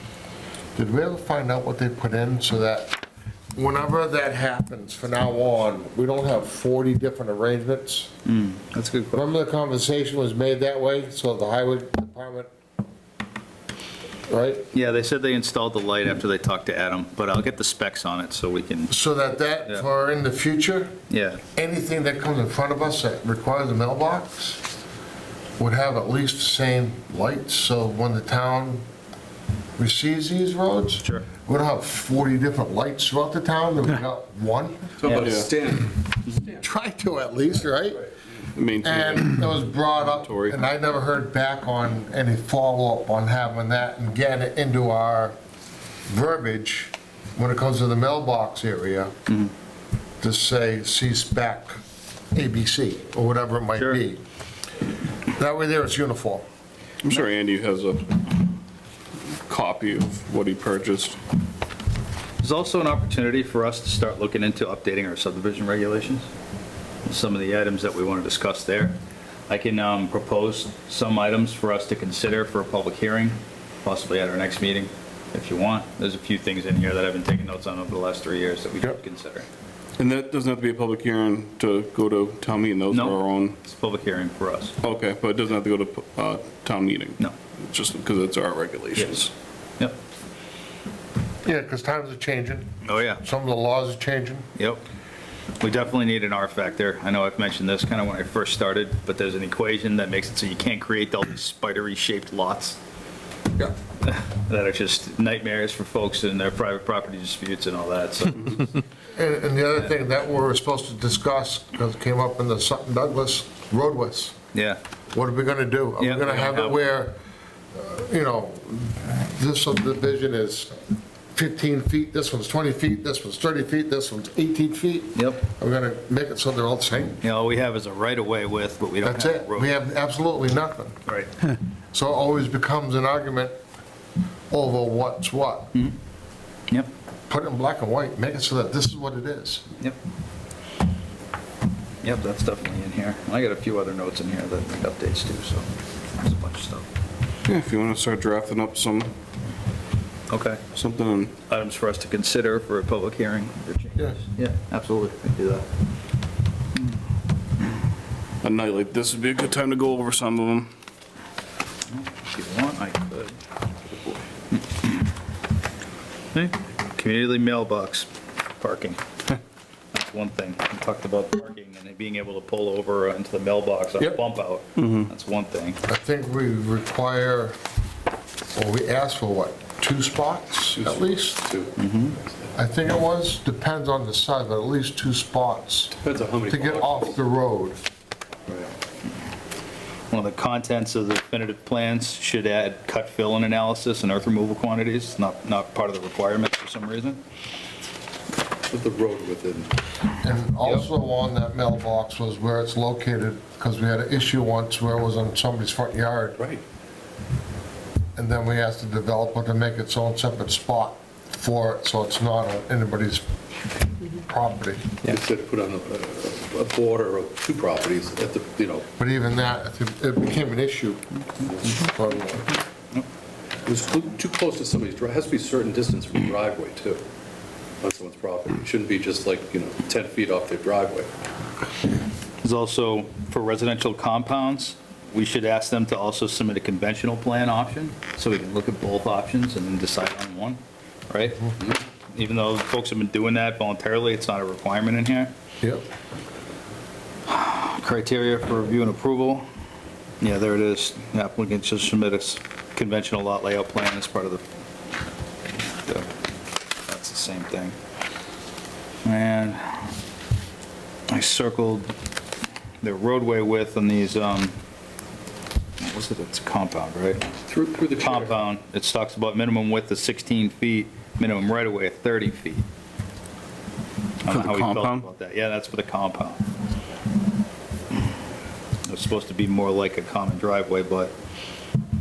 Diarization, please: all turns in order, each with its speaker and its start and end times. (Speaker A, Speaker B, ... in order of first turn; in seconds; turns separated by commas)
Speaker A: 0.8-3.0, Speaker A: 3.5-8.1, Speaker B: 8.2-9.2, Speaker A: 9.1-12.5, Speaker A: 14.3-14.7, Speaker B: 14.7-18.9, Speaker A: 18.9-21.0, Speaker B: 21.1-21.4, Speaker A: 21.5-24.6, Speaker A: 25.6-28.8, Speaker A: 29.8-34.9, Speaker B: 31.0-31.3, Speaker C: 35.0-36.6, Speaker B: 35.0-35.3, Speaker D: 35.1-35.5, Speaker A: 36.6-38.0, Speaker D: 38.5-40.6, Speaker A: 38.8-45.3, Speaker A: 46.1-49.1, Speaker A: 50.2-51.8, Speaker A: 52.3-54.2, Speaker A: 55.4-56.4, Speaker D: 57.0-58.3, Speaker D: 59.5-61.2, Speaker B: 62.4-66.3, Speaker B: 67.0-69.0, Speaker B: 69.5-79.5, Speaker D: 80.0-83.5, Speaker B: 82.9-84.8, Speaker D: 84.8-89.3, Speaker B: 89.0-89.3, Speaker A: 91.4-94.5, Speaker B: 92.8-93.2, Speaker B: 94.5-94.8, Speaker B: 95.6-102.8, Speaker B: 103.6-108.7, Speaker A: 109.1-114.3, Speaker B: 114.5-114.8, Speaker A: 115.1-117.2, Speaker B: 116.0-116.8, Speaker A: 117.7-120.8, Speaker A: 121.3-127.2, Speaker B: 125.1-125.4, Speaker B: 127.2-129.7, Speaker A: 129.0-130.9, Speaker A: 131.9-133.6, Speaker A: 134.5-135.7, Speaker A: 137.3-139.7, Speaker B: 142.0-145.7, Speaker B: 146.2-146.8, Speaker D: 147.4-149.1, Speaker B: 150.3-150.6, Speaker D: 150.7-151.3, Speaker B: 151.5-155.6, Speaker D: 158.4-160.7, Speaker B: 161.9-163.4, Speaker B: 164.5-165.0, Speaker B: 166.3-169.3, Speaker B: 169.9-175.8, Speaker D: 174.8-175.1, Speaker A: 175.9-177.6, Speaker A: 178.5-181.4, Speaker C: 180.8-181.8, Speaker B: 181.8-182.2, Speaker A: 182.5-185.9, Speaker C: 185.9-187.2, Speaker A: 186.5-187.8, Speaker B: 190.1-197.2, Speaker C: 198.7-199.7, Speaker A: 200.2-206.4, Speaker C: 206.4-206.6, Speaker A: 208.2-213.2, Speaker A: 214.1-214.9, Speaker C: 215.0-218.8, Speaker A: 219.0-221.1, Speaker C: 221.5-221.8, Speaker A: 221.6-222.5, Speaker C: 223.7-227.0, Speaker C: 227.8-231.1, Speaker B: 232.4-245.3, Speaker B: 247.3-249.4, Speaker B: 250.2-254.4, Speaker B: 255.8-256.1, Speaker B: 256.9-257.7, Speaker B: 259.0-259.9, Speaker B: 261.1-261.9, Speaker B: 262.8-264.5, Speaker B: 265.8-267.2, Speaker C: 267.5-268.4, Speaker B: 268.0-272.6, Speaker B: 274.2-276.4, Speaker D: 274.3-275.1, Speaker B: 278.9-281.1